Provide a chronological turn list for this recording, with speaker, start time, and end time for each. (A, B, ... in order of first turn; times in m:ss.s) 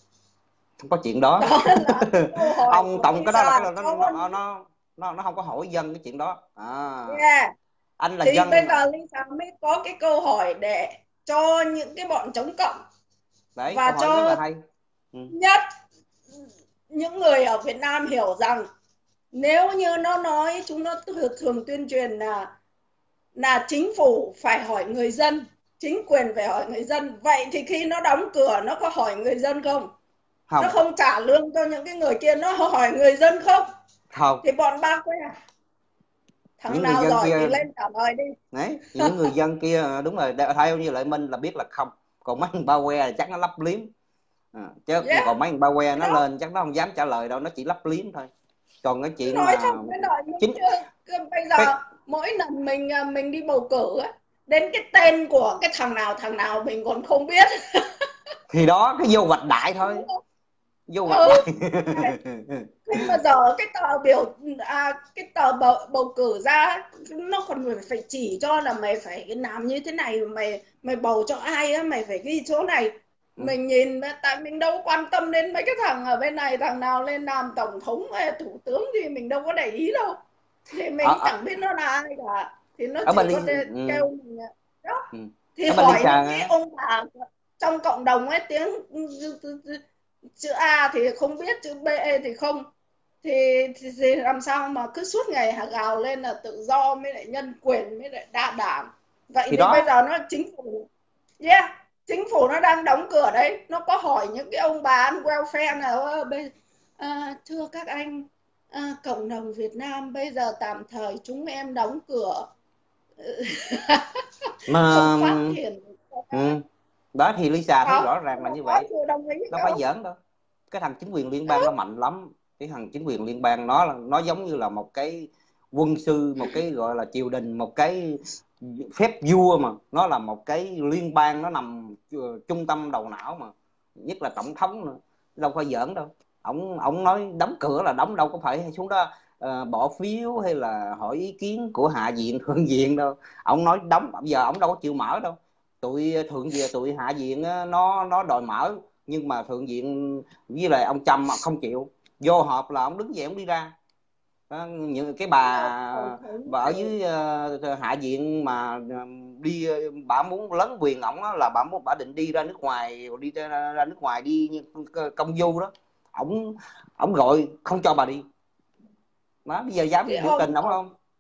0:00.8-0:07.2 A
0:01.4-0:04.3 B
0:07.1-0:07.5 B
0:08.0-0:08.7 A
0:08.2-0:12.8 B
0:13.6-0:14.6 A
0:13.7-0:14.4 B
0:15.3-0:15.6 B
0:16.9-0:18.6 B
0:19.3-0:22.5 B
0:23.4-0:29.9 B
0:30.5-0:30.8 A
0:30.6-0:33.6 B
0:34.1-0:34.4 A
0:34.4-0:35.3 B
0:36.6-0:38.3 B
0:36.7-0:37.6 A
0:38.5-0:43.9 A
0:39.0-0:39.2 B
0:44.5-0:48.3 A
0:45.0-0:45.3 B
0:45.9-0:46.2 B
0:48.8-0:49.9 A
0:49.2-0:57.5 B
0:58.5-1:00.0 A
0:59.8-1:00.2 B
1:00.9-1:03.1 A
1:01.0-1:02.2 B
1:02.9-1:20.2 B
1:20.7-1:25.0 B
1:21.0-1:21.3 A
1:23.0-1:24.1 A
1:25.1-1:26.5 A
1:25.6-1:29.8 B
1:30.4-1:32.7 B
1:33.2-1:40.9 B
1:39.5-1:39.9 A
1:41.4-1:52.5 B
1:53.2-1:56.6 B
1:54.7-1:55.6 A
1:56.3-1:56.6 A
1:57.1-1:58.8 A
1:57.8-1:59.8 B
1:59.5-2:00.2 A
2:00.7-2:33.7 A
2:34.5-2:48.2 A
2:35.5-2:36.9 B
2:49.4-2:50.9 A
2:50.0-2:50.8 B